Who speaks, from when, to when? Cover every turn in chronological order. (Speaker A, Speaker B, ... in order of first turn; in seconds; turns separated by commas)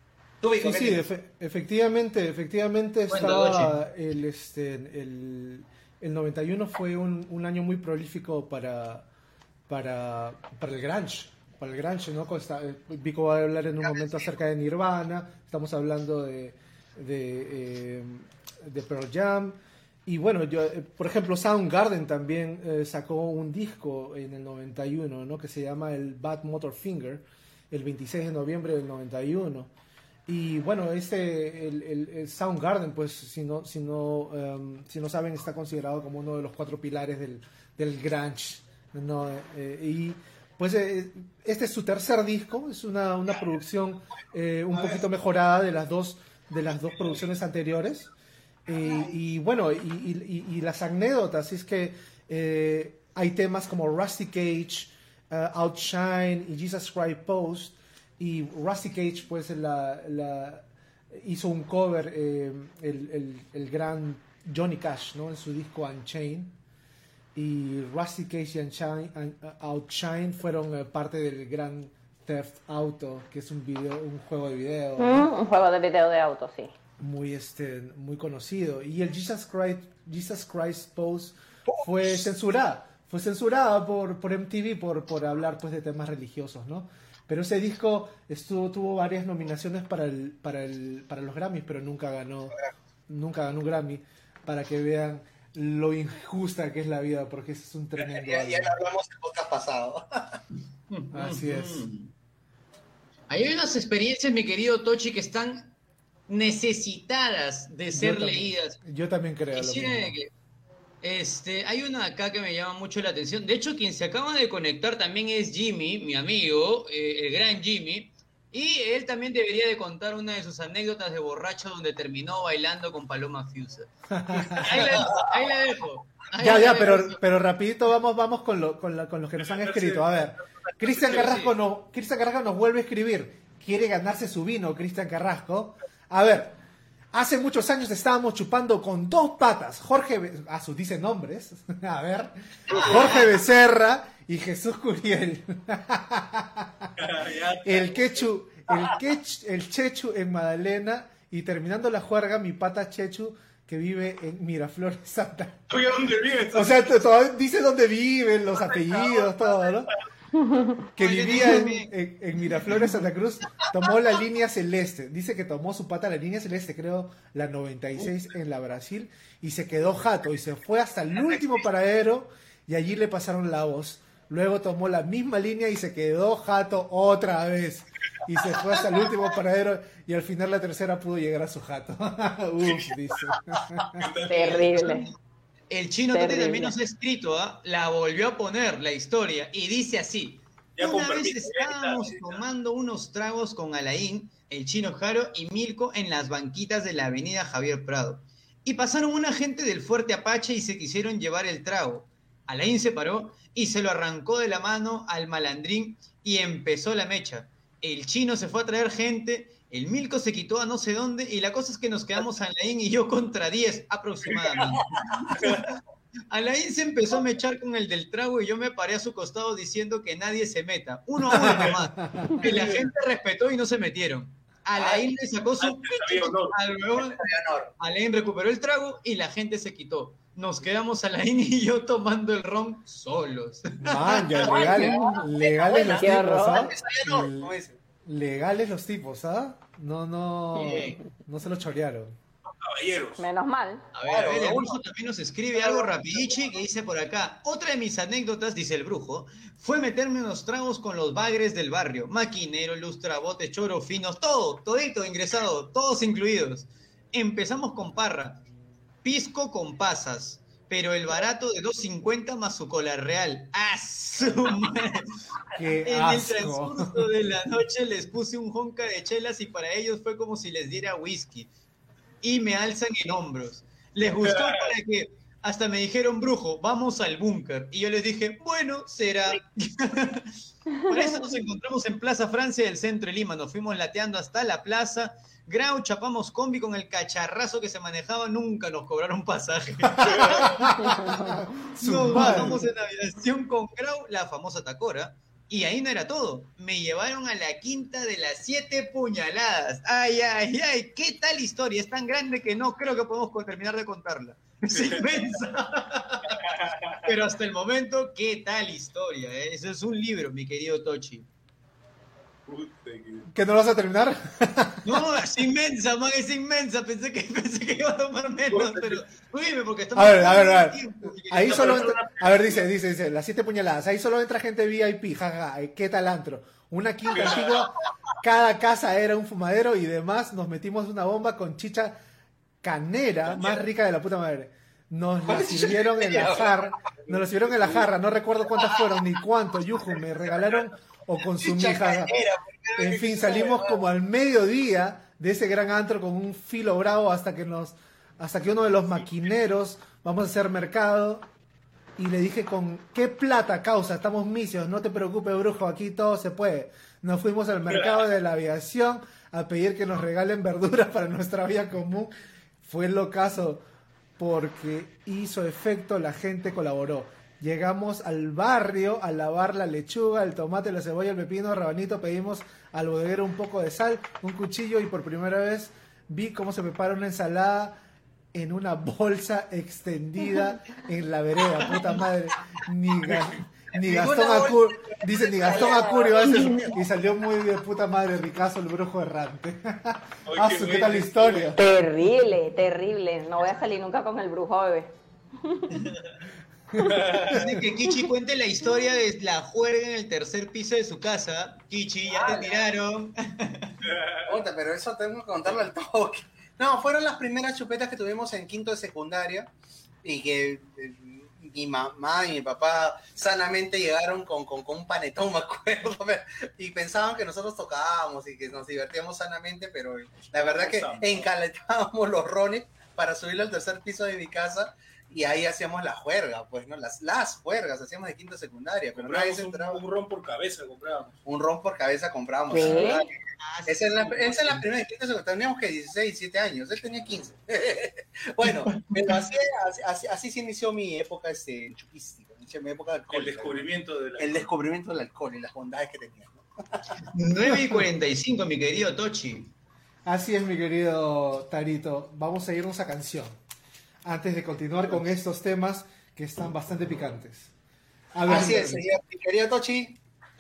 Speaker A: 0.4-1.0, Speaker B: 0.6-9.1, Speaker C: 3.1-3.8, Speaker B: 9.7-29.7, Speaker A: 13.8-14.3, Speaker B: 30.3-48.1, Speaker B: 48.7-66.6, Speaker B: 67.3-75.3, Speaker D: 75.0-76.7, Speaker B: 77.0-92.5, Speaker A: 81.7-82.1, Speaker B: 93.1-98.7, Speaker A: 98.0-100.4, Speaker C: 100.9-102.1, Speaker B: 101.1-101.9, Speaker C: 103.3-105.8, Speaker C: 106.3-108.8, Speaker B: 107.9-110.2, Speaker C: 109.5-110.3, Speaker C: 111.0-127.2, Speaker B: 124.1-124.8, Speaker E: 124.6-125.1, Speaker B: 126.4-136.6, Speaker E: 129.4-130.0, Speaker E: 130.8-131.5, Speaker B: 137.1-146.9, Speaker E: 147.0-148.2, Speaker B: 147.7-155.7, Speaker E: 155.7-157.0, Speaker B: 156.5-159.9, Speaker E: 158.6-160.0, Speaker D: 160.3-160.8, Speaker C: 161.0-161.9, Speaker B: 161.0-184.1, Speaker E: 183.9-184.7, Speaker C: 184.3-185.2, Speaker D: 184.3-185.1, Speaker C: 185.7-215.8, Speaker D: 186.1-186.7, Speaker E: 190.8-192.4, Speaker E: 214.6-215.7, Speaker C: 216.3-227.2, Speaker B: 221.3-222.3, Speaker E: 222.4-222.8, Speaker A: 224.8-225.1, Speaker E: 225.6-226.6, Speaker A: 227.0-227.7, Speaker C: 227.8-234.4, Speaker B: 233.8-237.5, Speaker A: 234.4-237.8, Speaker D: 234.5-235.2, Speaker D: 236.0-236.7, Speaker B: 238.1-242.2, Speaker C: 240.5-241.0, Speaker E: 242.6-243.2, Speaker D: 243.2-243.8, Speaker C: 243.9-258.4, Speaker A: 244.1-244.8, Speaker A: 245.6-246.4, Speaker C: 259.0-265.2, Speaker B: 265.5-267.1, Speaker C: 265.8-271.5, Speaker C: 272.2-290.8, Speaker E: 274.2-274.6, Speaker E: 290.1-290.4, Speaker B: 290.3-292.6, Speaker D: 290.8-291.4, Speaker C: 291.8-306.4, Speaker E: 304.7-305.2, Speaker E: 306.3-307.1, Speaker C: 307.1-311.3, Speaker E: 312.5-313.3, Speaker B: 313.3-315.1, Speaker C: 314.9-322.6, Speaker E: 318.5-319.0, Speaker B: 319.9-332.0, Speaker E: 321.5-321.9, Speaker E: 327.1-327.7, Speaker B: 332.6-342.1, Speaker A: 335.3-336.6, Speaker A: 341.4-343.8, Speaker B: 342.8-351.3, Speaker B: 352.0-362.1, Speaker B: 362.6-363.6, Speaker B: 364.2-377.8, Speaker B: 378.3-391.6, Speaker A: 383.8-386.8, Speaker E: 390.3-391.5, Speaker D: 391.6-394.9, Speaker E: 396.8-397.6, Speaker B: 396.8-397.6, Speaker C: 397.3-403.8, Speaker A: 402.1-402.6, Speaker E: 403.8-404.4, Speaker A: 404.3-409.5, Speaker A: 410.0-429.8, Speaker E: 420.4-421.3, Speaker E: 428.9-431.2, Speaker A: 431.2-433.1, Speaker D: 432.5-433.0, Speaker C: 432.6-434.6, Speaker A: 433.7-446.9, Speaker E: 443.1-444.5, Speaker C: 447.1-449.5, Speaker B: 450.1-453.4, Speaker B: 454.1-457.5, Speaker B: 458.1-458.9, Speaker A: 458.2-460.0